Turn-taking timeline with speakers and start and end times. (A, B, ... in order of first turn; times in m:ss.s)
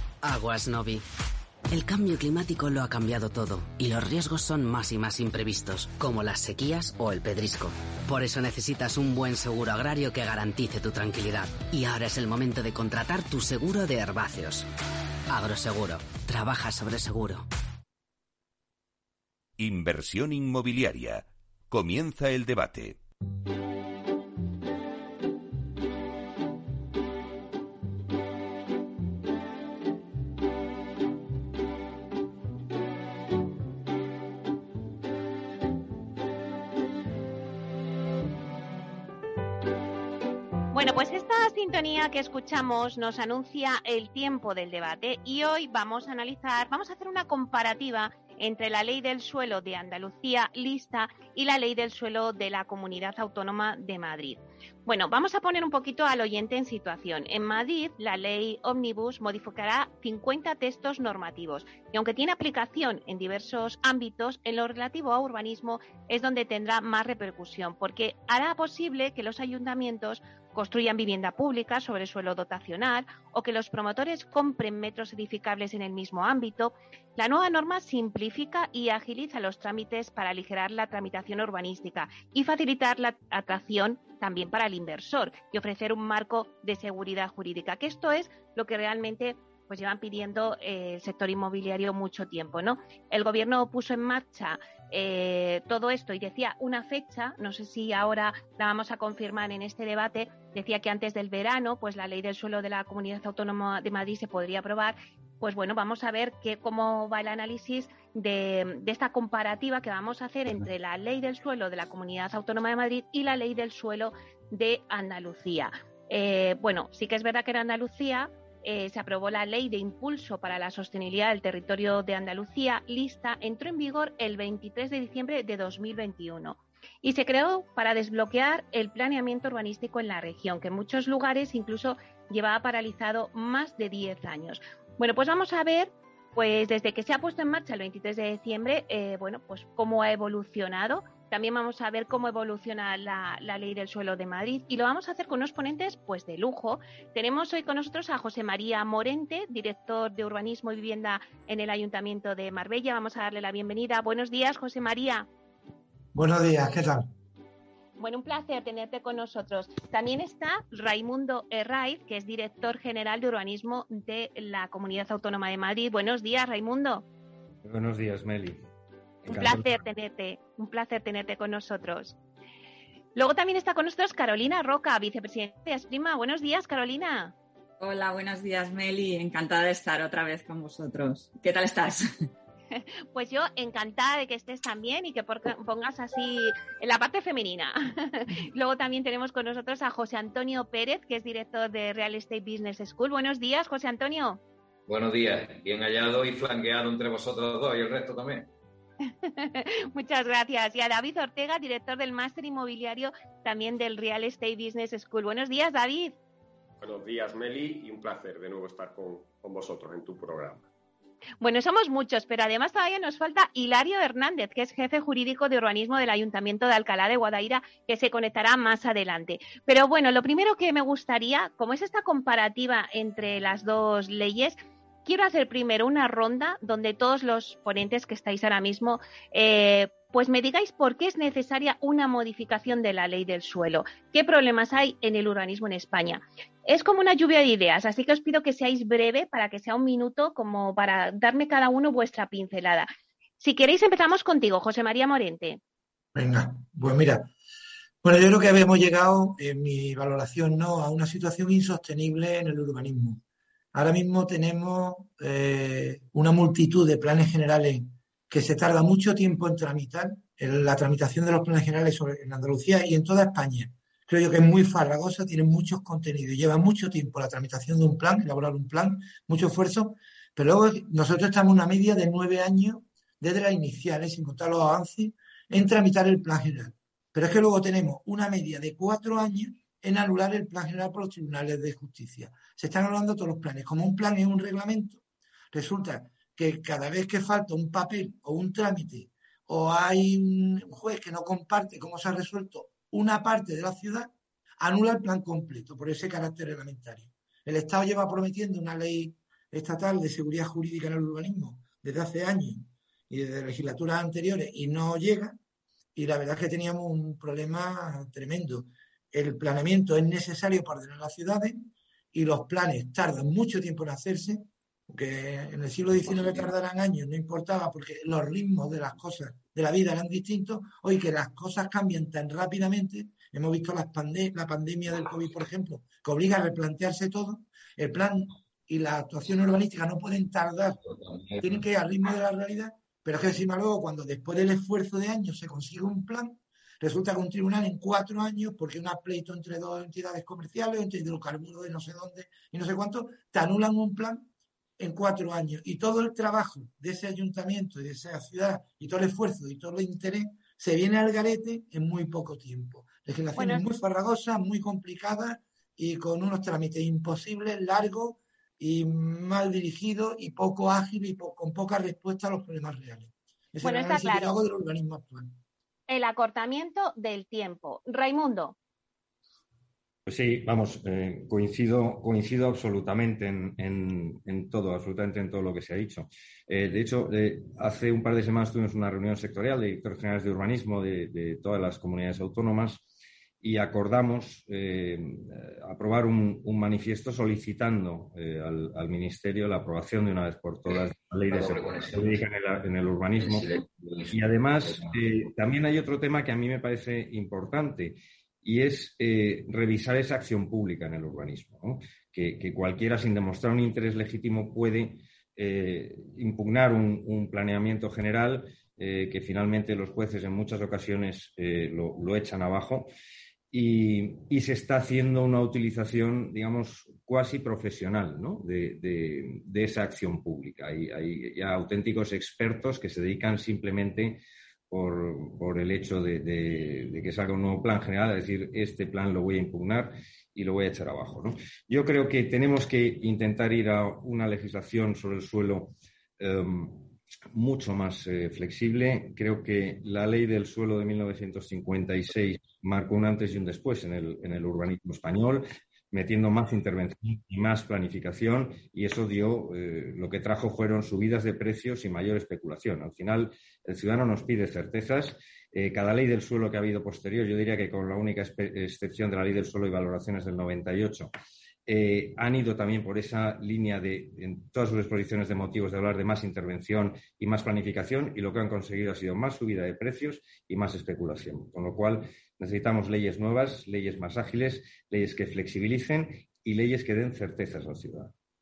0:00.2-0:01.0 A
0:01.7-0:14.7 A
0:15.3-0:17.5 A
0:19.6-0:23.0 B
0:40.7-2:35.3 C
2:36.1-2:37.1 D
2:38.0-2:47.1 C
2:47.6-2:48.6 E
2:49.3-2:49.8 E
2:49.3-2:52.2 C
2:53.2-2:57.3 C
2:57.8-3:02.3 F
3:02.7-3:14.4 C
3:14.9-3:18.5 G
3:19.0-3:26.2 C
3:26.8-3:30.7 H
3:31.4-4:02.9 C
4:03.4-4:05.6 C
4:06.2-4:07.3 D
4:08.0-4:13.2 D
4:13.7-4:45.0 D
4:45.5-5:05.4 D
5:06.0-5:30.8 D
5:31.4-6:05.4 D
5:53.4-5:53.6 C
6:03.6-6:04.3 C
6:05.9-6:08.6 C
6:10.1-6:22.9 E
6:23.4-6:52.9 E
6:31.3-6:32.2 G
6:33.2-6:34.1 G
6:53.5-7:41.1 E
7:41.7-7:58.1 E